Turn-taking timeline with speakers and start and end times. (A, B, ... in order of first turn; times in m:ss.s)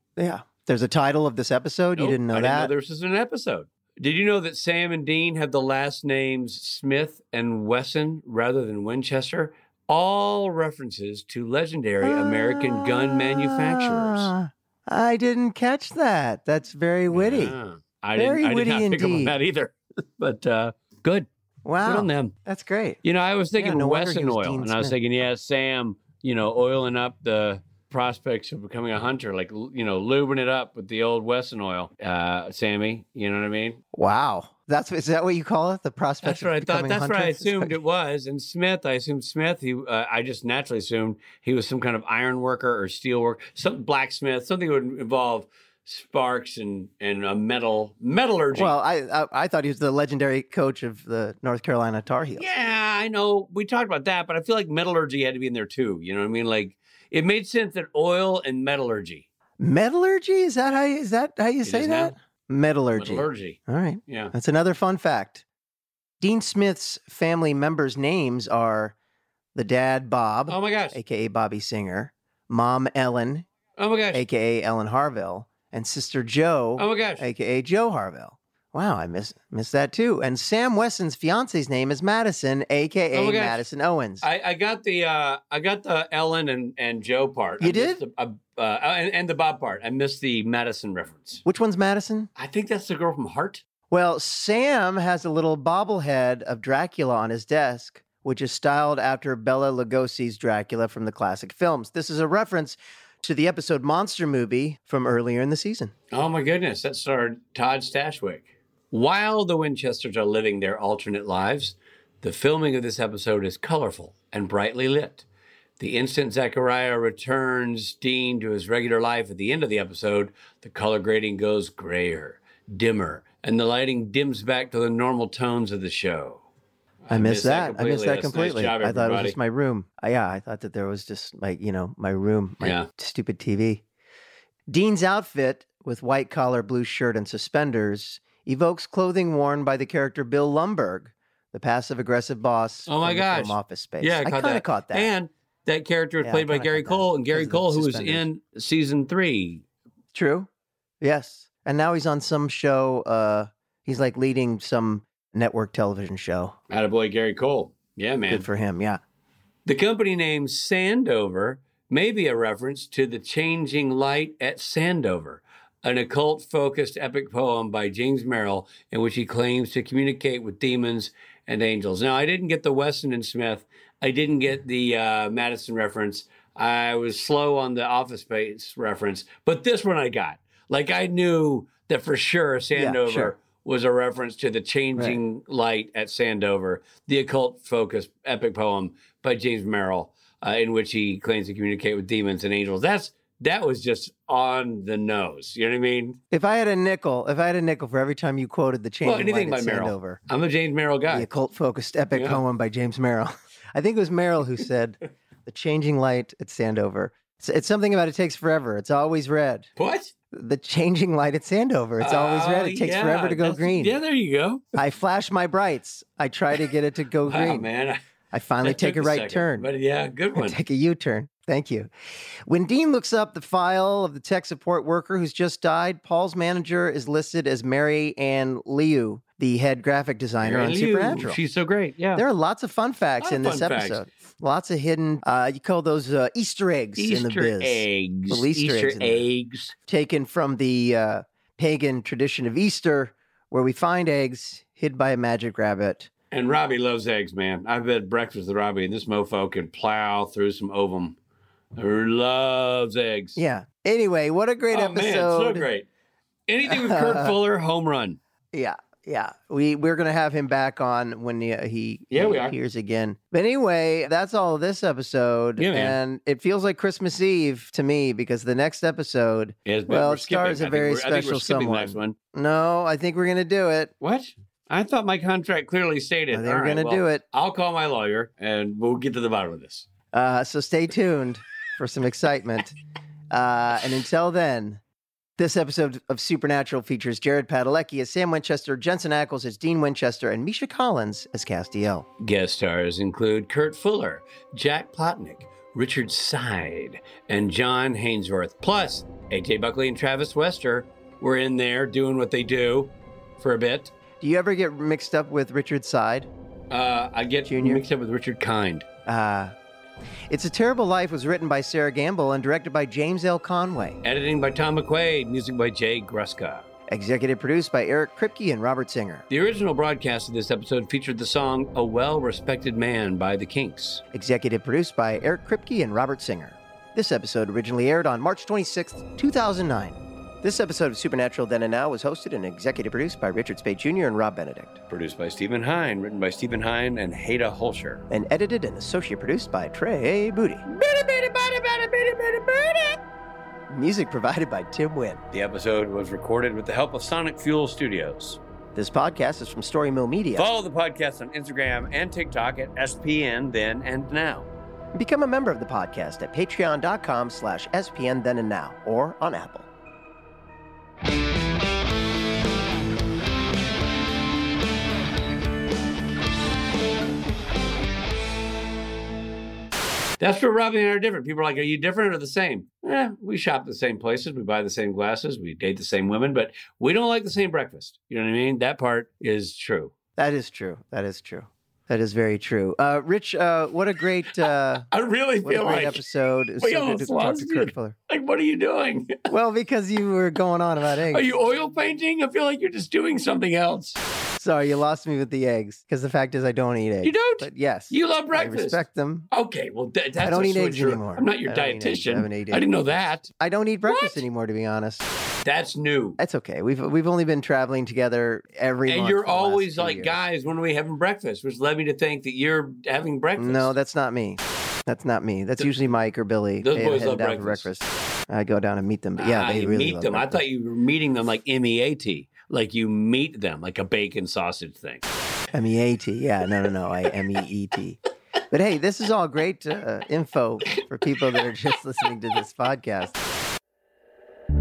0:00.2-0:02.7 A
0:02.0-0:14.3 B
0:12.0-0:17.6 A
0:17.1-0:21.3 B
0:18.2-0:19.4 A
0:21.6-0:23.0 A
0:21.8-0:22.3 B
0:23.0-0:33.8 B
0:23.6-0:25.0 A
0:33.9-0:37.8 A
0:36.2-0:48.7 B
0:48.5-0:52.5 A
0:52.4-0:59.2 B
0:59.6-1:05.4 A
1:01.6-1:02.1 B
1:02.9-1:04.3 B
1:06.2-1:08.9 A
1:09.5-1:13.4 A
1:10.5-1:11.0 B
1:13.8-1:14.2 B
1:14.1-1:24.2 A
1:16.8-1:17.3 B
1:23.1-1:23.6 B
1:24.2-1:31.4 B
1:27.6-1:28.0 A
1:31.4-1:32.3 A
1:32.4-1:33.6 B
1:33.9-1:45.9 A
1:46.1-1:55.2 B
1:55.8-2:06.4 B
2:07.0-2:09.4 B
2:07.1-2:13.8 A
2:12.6-2:12.9 B
2:14.7-2:25.1 A
2:22.9-2:29.6 B
2:26.2-2:28.3 A
2:30.1-2:30.5 A
2:31.0-2:36.6 A
2:36.7-2:38.5 B
2:38.3-2:39.0 A
2:39.6-3:16.2 B
3:02.7-3:03.3 A
3:16.3-3:20.2 A
3:19.0-3:21.3 B
3:21.1-3:29.7 A
3:22.1-3:22.4 B
3:29.8-3:30.1 B
3:30.3-3:33.9 A
3:32.0-3:34.6 B
3:34.7-3:37.7 A
3:37.2-3:38.0 B
3:38.3-3:39.7 A
3:38.6-3:40.6 B
3:40.3-3:41.9 A
3:42.5-3:51.4 A
3:50.4-3:52.2 B
3:52.2-3:59.2 A
3:53.2-3:54.0 B
3:57.0-3:59.7 B
3:59.9-4:06.1 A
4:06.3-4:11.2 B
4:11.8-4:13.4 B
4:13.4-4:15.7 A
4:14.7-4:15.9 B
4:16.5-4:18.2 B
4:16.6-4:17.4 A
4:18.5-4:33.9 A
4:22.1-4:22.6 B
4:25.6-4:26.0 B
4:29.6-4:32.2 B
4:34.0-4:39.9 B
4:36.3-4:37.2 A
4:40.1-4:42.8 A
4:43.3-4:44.8 A
4:45.4-4:52.1 A
4:52.2-5:03.9 B
5:04.2-5:06.3 A
5:06.7-5:08.8 B
5:07.5-5:07.8 A
5:09.0-5:09.5 A
5:10.3-5:14.0 A
5:14.0-5:16.6 B
5:16.9-5:19.2 A
5:19.3-5:24.0 B
5:24.1-5:34.8 A
5:34.9-5:38.0 B
5:38.1-5:40.6 A
5:40.7-5:43.0 B
5:43.7-5:45.2 A
5:45.3-5:48.4 B
5:48.7-5:50.5 A
5:50.4-5:54.5 B
5:54.9-5:59.7 A
6:10.2-6:19.9 B
6:20.2-6:24.9 A
6:24.9-6:26.0 B
6:25.4-6:28.0 A
6:26.6-6:29.3 B
6:29.3-6:31.3 A
6:31.1-6:34.0 B
6:34.4-6:39.3 A
6:37.0-6:43.3 B
6:40.2-6:42.7 A
6:43.3-6:45.0 A
6:43.9-6:44.2 B
6:45.4-6:46.2 B
6:46.2-6:50.2 A
6:48.8-6:53.7 B
6:53.4-7:00.4 A
6:56.6-6:57.7 B
6:59.2-7:05.1 B
7:05.5-7:08.0 A
7:08.5-7:13.2 A